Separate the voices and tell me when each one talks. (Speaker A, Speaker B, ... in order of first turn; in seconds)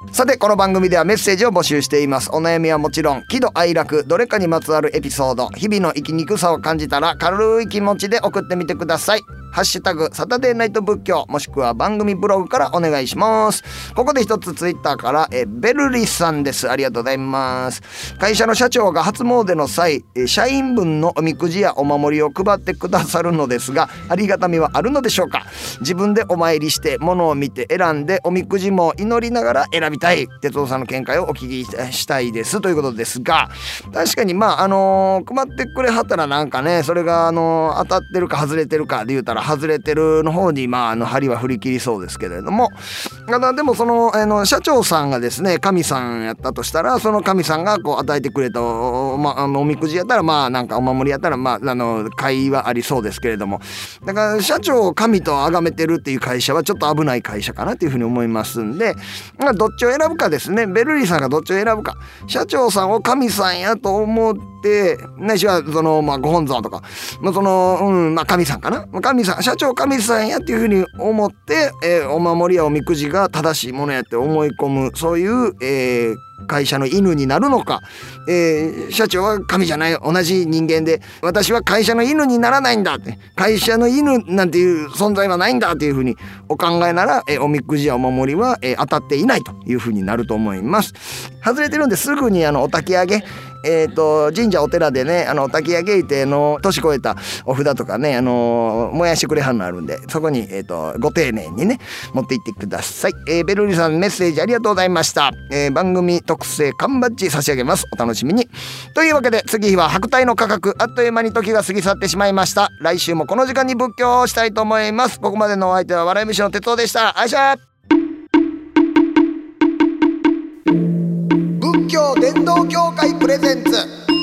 Speaker A: 0.1-117.6, 121.5-123.9